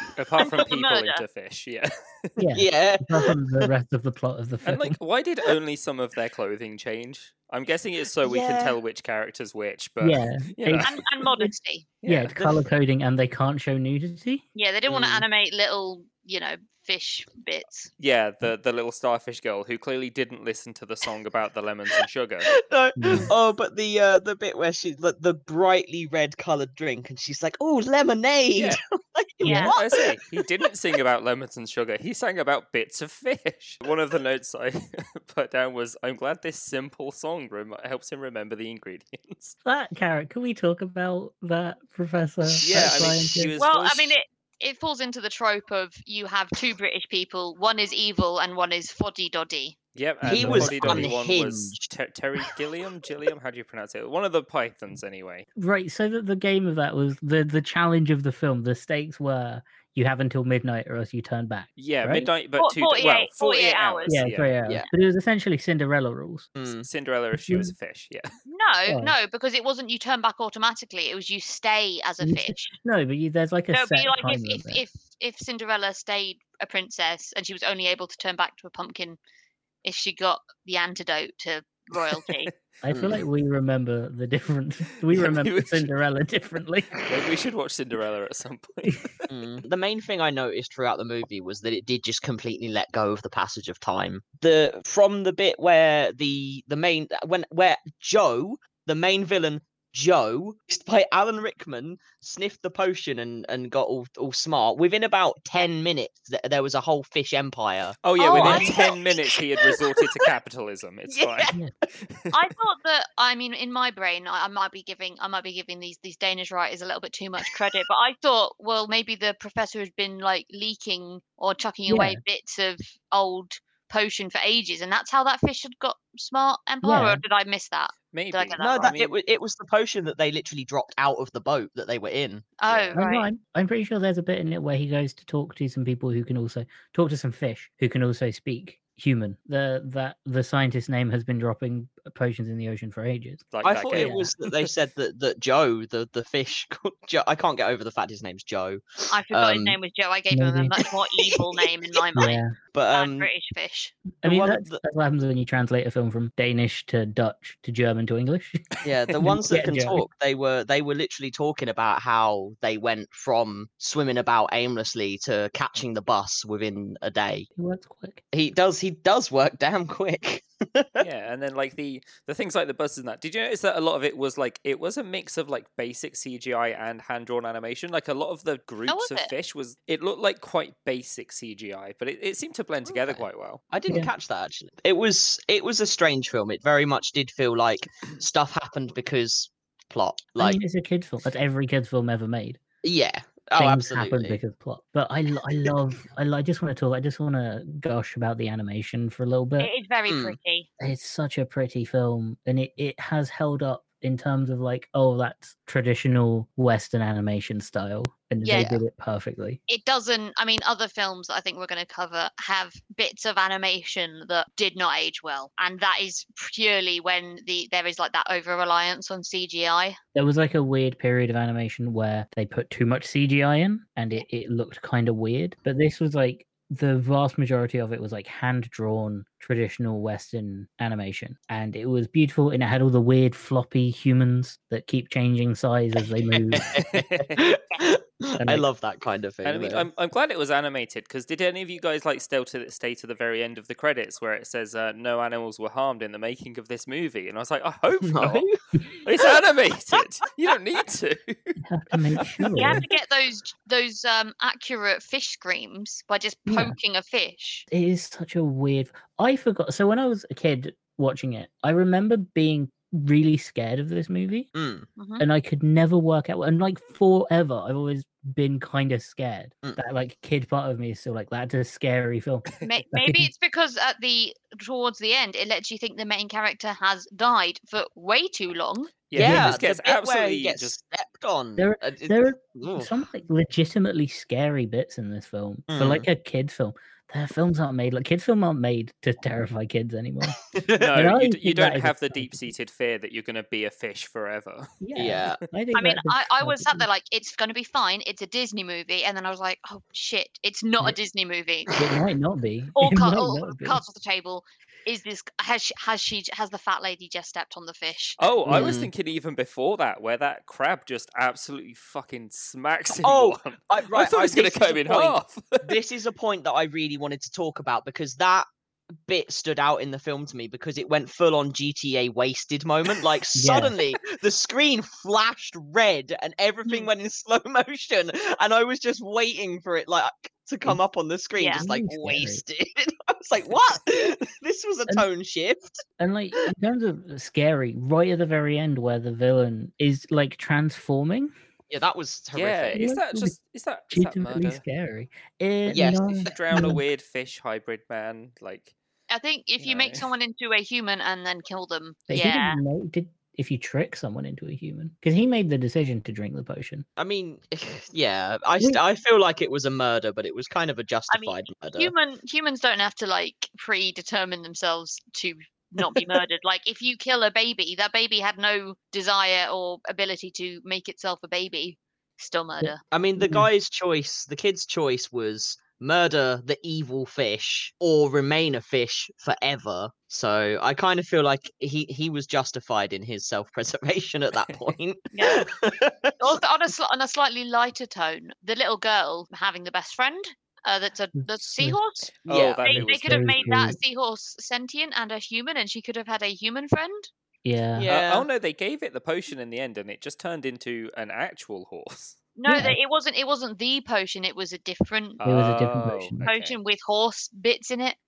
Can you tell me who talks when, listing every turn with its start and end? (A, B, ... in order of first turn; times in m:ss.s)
0:00.2-0:02.3 A
0:00.4-0:01.2 B
0:02.4-0:05.0 C
0:02.5-0:03.3 D
0:04.6-0:11.0 A
0:08.2-0:08.8 D
0:10.0-0:11.5 C
0:10.8-0:11.9 B
0:12.0-0:12.4 A
0:12.0-0:14.4 C
0:12.4-0:12.6 D
0:14.5-0:17.9 B
0:14.9-0:15.2 D
0:18.0-0:22.5 A
0:22.6-0:30.4 D
0:23.0-0:23.3 C
0:29.4-0:29.7 B
0:29.5-0:39.6 A
0:39.6-0:43.5 C
0:42.6-0:44.1 A
0:42.6-0:43.1 D
0:43.6-0:49.8 B
0:49.9-0:55.4 A
0:50.2-0:51.1 C
0:50.2-0:51.9 D
0:55.6-1:02.3 C
1:01.8-1:04.6 A
1:02.6-1:04.2 B
1:04.1-1:06.5 C
1:06.6-1:06.9 D
1:06.7-1:08.3 A
1:07.4-1:07.7 C
1:08.5-1:12.7 B
1:08.9-1:09.1 C
1:12.2-1:14.8 C
1:13.7-1:19.2 B
1:19.8-1:22.5 B
1:22.8-1:27.0 C
1:22.9-1:23.2 D
1:25.1-1:25.9 A
1:27.0-1:29.2 A
1:29.3-1:49.1 D
1:48.0-1:52.3 A
1:48.2-1:48.8 B
1:51.1-1:51.6 D
1:52.3-2:09.1 B
2:01.9-2:02.2 C
2:06.8-2:07.2 C
2:08.1-2:09.1 A
2:08.6-2:12.5 D
2:12.6-2:13.3 B
2:12.7-2:13.0 A
2:12.9-2:24.3 C
2:23.5-2:24.3 A
2:23.6-2:29.8 D
2:29.1-2:33.9 B
2:30.3-2:30.8 C
2:31.2-2:31.6 D
2:32.2-2:32.5 C
2:32.7-2:33.3 D
2:34.2-2:38.6 C
2:34.2-2:34.8 D
2:38.8-2:47.5 D
2:39.2-2:40.0 C
2:47.6-2:48.2 C
2:48.3-2:51.1 D
2:51.0-3:03.6 A
2:58.9-2:59.3 B
3:02.8-3:10.6 D
3:10.4-3:12.6 C
3:12.8-3:14.4 D
3:13.6-3:19.7 C
3:19.6-3:20.7 B
3:20.1-3:20.4 D
3:20.8-3:29.6 C
3:28.4-3:28.7 B
3:28.5-3:28.8 D
3:29.7-3:40.0 B
3:40.1-3:56.7 C
3:56.5-3:59.9 D
3:56.8-3:57.4 A
3:58.4-3:58.6 C
3:59.4-4:11.6 A
4:08.0-4:08.5 D
4:11.6-4:12.8 C
4:12.6-4:17.6 B
4:16.5-4:16.8 C
4:17.7-4:24.5 C
4:24.5-4:24.9 D
4:25.0-4:25.2 B
4:25.2-4:33.3 C
4:32.6-4:39.0 B
4:39.1-4:40.8 A
4:39.1-4:39.6 C
4:39.2-4:43.0 D
4:41.6-4:52.5 C
4:45.7-4:46.1 D
4:50.5-4:51.0 D
4:50.8-4:54.7 A
4:54.8-4:56.9 C
4:55.0-4:55.4 D
4:55.7-5:01.8 B
5:01.8-5:03.8 C
5:02.8-5:08.2 B
5:08.2-5:15.7 A
5:08.4-5:08.7 C
5:08.5-5:08.9 D
5:12.9-5:18.4 D
5:19.0-5:35.8 D
5:23.3-5:23.7 C
5:31.4-5:31.6 B
5:31.6-5:32.4 C
5:36.0-5:41.3 C
5:41.7-5:42.8 D
5:42.3-5:44.6 A
5:42.7-5:43.4 C
5:43.9-5:46.8 C
5:45.7-5:46.4 D
5:46.2-5:48.7 A
5:49.1-5:52.6 B
5:49.6-5:50.1 A
5:52.1-5:56.8 C
5:57.0-6:01.9 D
6:01.1-6:12.8 B
6:12.6-6:13.5 C
6:12.9-6:26.3 D
6:25.1-6:25.4 B
6:26.2-6:32.1 B
6:31.3-6:31.8 C
6:32.3-6:32.6 D
6:32.3-6:33.5 A
6:32.6-6:37.1 B
6:32.7-6:33.8 C
6:37.4-6:37.9 C
6:37.8-6:38.3 D
6:37.9-6:42.2 A
6:42.4-6:45.2 B
6:42.5-6:42.8 C
6:45.2-6:46.6 A
6:45.2-6:46.2 C
6:46.2-6:48.0 B